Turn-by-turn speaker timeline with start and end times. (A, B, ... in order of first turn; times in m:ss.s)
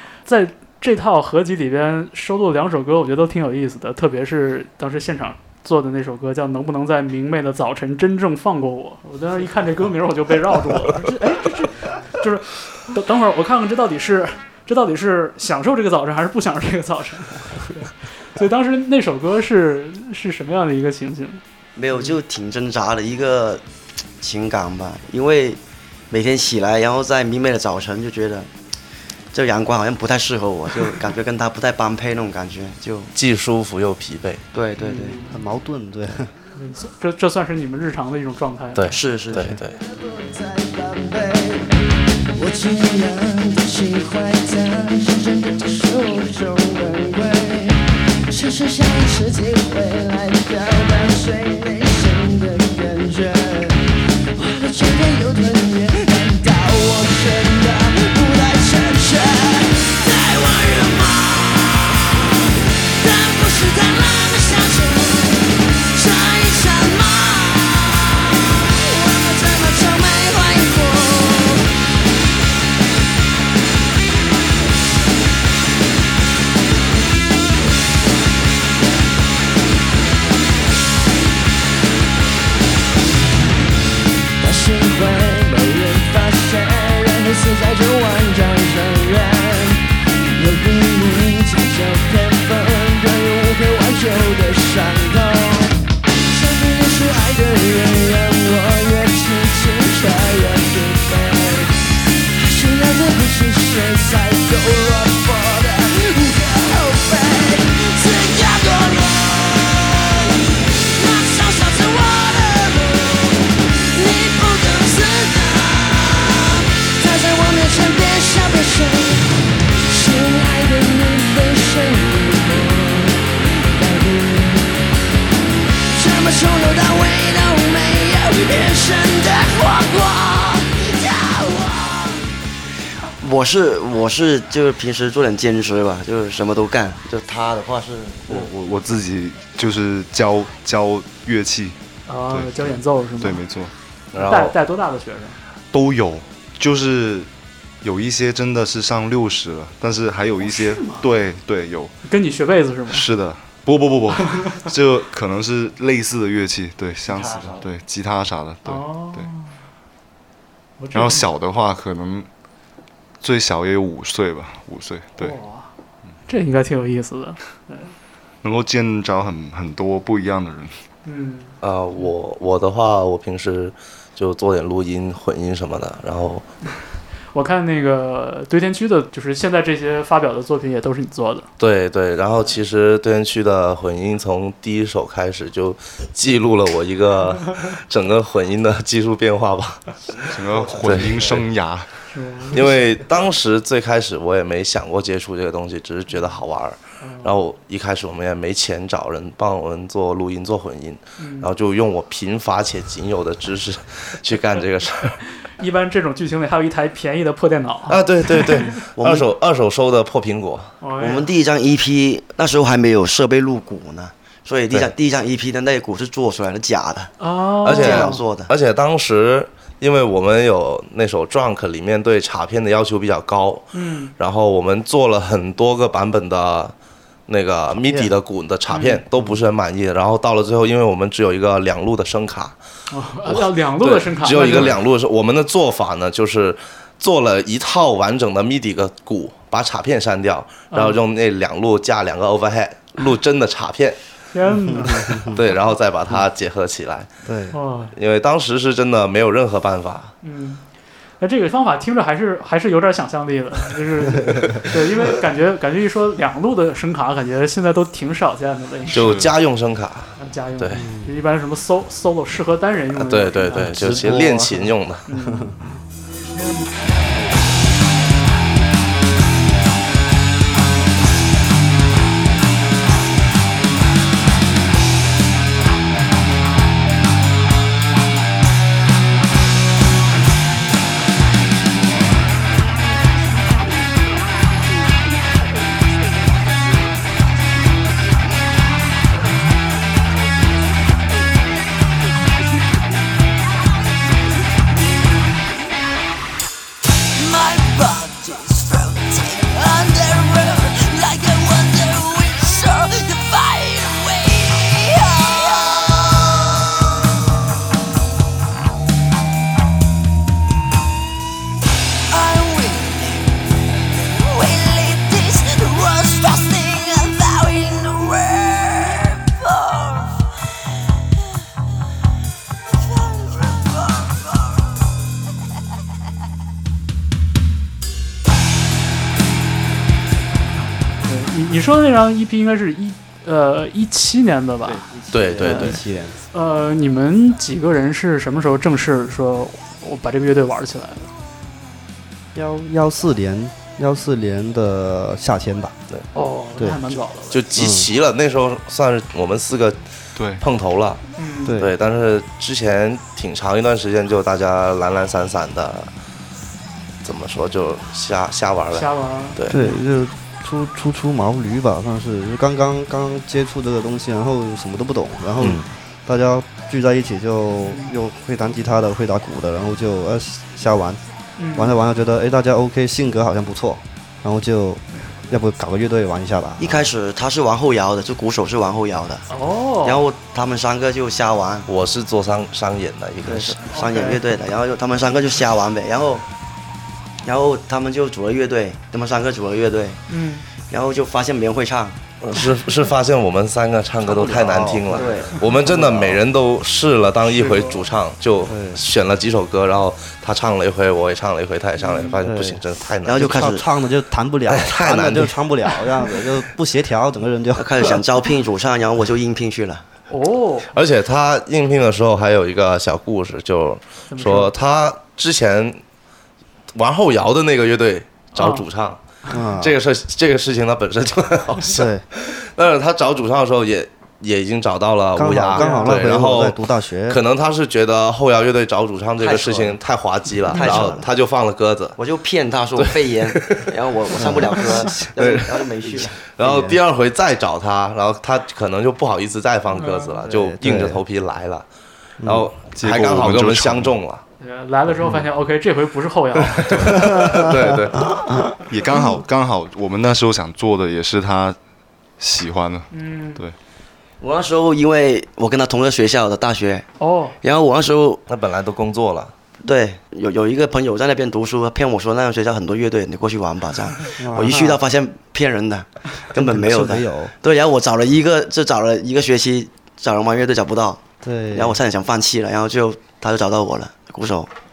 0:00.2-0:21.4 A
0:21.8-0:23.6 B
0:24.2-0:28.5 B
0:29.3-0:33.1 B
0:33.1-0:34.4 C
0:34.5-0:35.2 B
0:34.8-0:35.3 A
0:35.2-0:36.3 D
0:36.6-0:38.8 A
0:38.8-0:39.8 C
0:38.9-0:39.6 B
0:39.8-0:41.7 E
0:42.3-0:53.8 E
0:54.4-1:11.7 E
1:24.4-2:04.8 E
2:05.8-2:12.3 E
2:13.2-2:18.4 B
2:18.3-2:21.8 F
2:22.1-2:23.4 A
2:22.3-2:23.7 F
2:24.1-2:24.5 C
2:24.2-2:25.4 A
2:25.7-2:27.3 F
2:27.8-2:31.9 F
2:30.4-2:31.0 A
2:32.1-2:33.1 A
2:32.9-2:39.3 F
2:37.1-2:37.7 B
2:38.6-2:39.5 A
2:40.8-2:41.3 A
2:40.9-2:42.3 F
2:43.2-2:45.4 F
2:45.2-2:45.7 A
2:46.3-2:47.9 A
2:48.4-2:50.7 F
2:51.0-2:52.1 A
2:51.6-2:56.4 C
2:57.3-3:01.5 A
3:01.6-3:10.0 C
3:10.3-3:12.0 F
3:10.5-3:11.3 D
3:10.7-3:11.4 C
3:12.1-3:12.7 A
3:12.5-3:25.2 C
3:17.0-3:17.4 A
3:21.2-3:21.5 A
3:25.4-3:28.7 A
3:27.9-3:30.8 C
3:29.0-3:29.3 B
3:30.8-3:31.3 A
3:31.0-3:37.1 B
3:37.2-3:38.2 A
3:37.6-3:46.7 C
3:37.8-3:38.5 B
3:43.7-3:44.1 A
3:47.3-3:52.6 C
3:47.7-3:48.1 D
3:48.7-3:49.0 A
3:52.9-3:54.8 A
3:53.3-4:04.0 C
4:00.7-4:01.0 A
4:04.3-4:05.3 A
4:04.7-4:05.4 D
4:05.2-4:07.1 C
4:07.3-4:07.6 D
4:07.5-4:07.9 A
4:08.0-4:10.1 C
4:10.2-4:10.6 A
4:11.2-4:19.1 A
4:18.9-4:19.3 F
4:18.9-4:20.8 C
4:20.2-4:24.2 A
4:20.8-4:21.2 D
4:23.0-4:25.0 C
4:23.6-4:25.8 D
4:25.1-4:25.6 A
4:54.6-4:55.4 E
4:57.0-5:06.8 E
5:12.1-5:13.5 E
5:14.0-5:20.3 E
5:22.9-5:24.2 E
5:31.0-5:34.9 A
5:34.6-5:36.2 D
5:35.1-5:35.8 C
5:35.4-5:35.8 A
5:36.3-5:41.1 A
5:42.4-5:45.8 D
5:46.2-5:47.4 A
5:47.3-5:49.8 C
5:47.5-5:47.9 D
5:50.2-5:50.4 F
5:50.4-5:51.0 C
5:51.2-5:51.6 A
5:51.5-5:51.7 D
5:51.6-5:55.9 C
5:57.0-5:59.6 C
5:58.7-5:59.4 A
5:59.5-6:11.0 D
6:05.4-6:05.7 C
6:07.7-6:07.9 A
6:11.4-6:11.8 A
6:11.5-6:16.9 D
6:16.6-6:19.3 B
6:19.3-6:20.0 A
6:19.8-6:21.7 B
6:21.7-6:23.6 C
6:23.2-6:26.2 B
6:23.7-6:24.2 A
6:27.2-6:30.0 B
6:30.1-6:30.4 A
6:30.6-6:32.0 B
6:32.2-6:43.6 C
6:34.0-6:36.2 D
6:34.9-6:35.4 B
6:37.3-6:37.8 A
6:38.5-6:38.8 D
6:41.8-6:42.2 A
6:42.2-6:47.7 D
6:43.0-6:43.7 B
6:44.5-6:45.4 C
6:47.6-6:49.9 B
6:50.1-6:50.7 A
6:50.7-6:55.8 C
6:54.1-6:54.5 A
6:56.8-6:59.0 C
6:58.4-6:58.6 A
6:59.3-6:59.8 D
6:59.6-7:12.0 C
7:01.6-7:02.0 D
7:05.2-7:07.2 D
7:05.6-7:06.0 A
7:09.2-7:09.8 B
7:10.5-7:11.1 B
7:12.0-7:16.2 B
7:12.8-7:13.7 C
7:14.1-7:15.2 D
7:14.6-7:21.7 C
7:16.4-7:16.8 D
7:19.8-7:20.2 A
7:20.3-7:21.0 D
7:22.2-7:22.5 D
7:22.2-7:24.2 C
7:22.7-7:24.0 F
7:24.4-7:27.2 A
7:26.7-7:28.0 C
7:27.0-7:27.4 D
7:28.7-7:31.6 F
7:32.2-7:33.6 F
7:32.9-7:33.4 A
7:34.2-7:36.9 B
7:37.0-7:37.4 A
7:37.4-7:38.2 B
7:38.3-7:39.3 C
7:39.6-7:54.5 B
7:44.2-7:44.8 D
7:46.4-7:47.3 D
7:51.2-7:51.8 D